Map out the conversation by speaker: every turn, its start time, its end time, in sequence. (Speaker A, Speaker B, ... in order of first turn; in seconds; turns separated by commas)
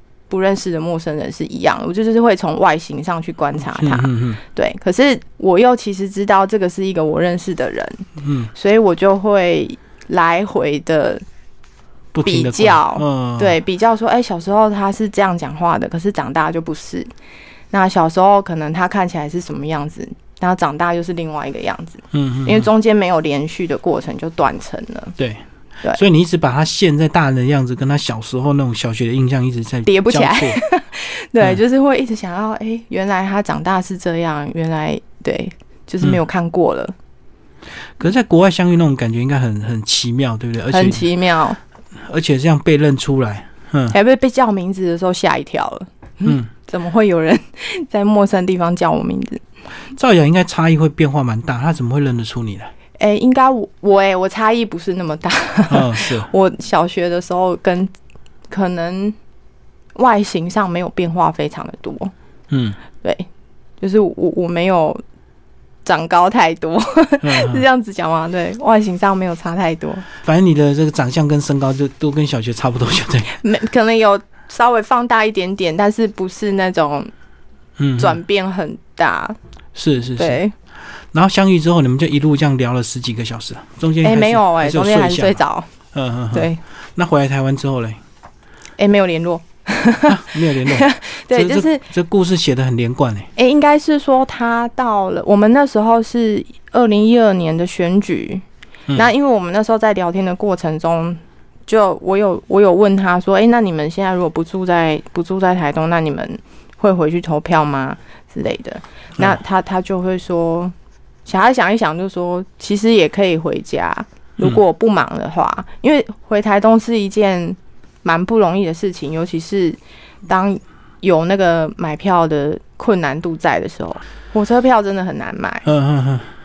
Speaker A: 0.3-11.2, Speaker B: 3.7-4.4, Speaker B: 8.2-8.5, Speaker B: 12.1-13.5, Speaker A: 12.2-17.1, Speaker A: 17.7-25.1, Speaker B: 22.1-22.7, Speaker B: 25.2-30.6, Speaker A: 29.9-36.9, Speaker B: 38.0-41.1, Speaker A: 40.7-41.6, Speaker B: 42.1-44.0, Speaker A: 43.9-49.4, Speaker B: 49.9-52.7, Speaker A: 53.0-57.9, Speaker B: 55.7-56.3, Speaker A: 58.5-59.2, Speaker A: 59.9-62.1, Speaker B: 62.5-62.8, Speaker A: 63.0-63.3, Speaker A: 63.8-65.0, Speaker A: 65.8-70.0, Speaker B: 67.2-67.6, Speaker B: 70.2-73.4, Speaker A: 73.3-77.1, Speaker B: 77.8-78.2, Speaker A: 78.0-79.4, Speaker B: 79.7-80.4, Speaker A: 80.2-80.5, Speaker B: 81.1-85.4, Speaker A: 84.0-85.7, Speaker B: 85.9-88.0, Speaker A: 86.3-86.6, Speaker A: 88.8-91.9, Speaker B: 90.0-93.3, Speaker A: 93.3-110.7, Speaker A: 111.2-125.7, Speaker B: 125.6-126.3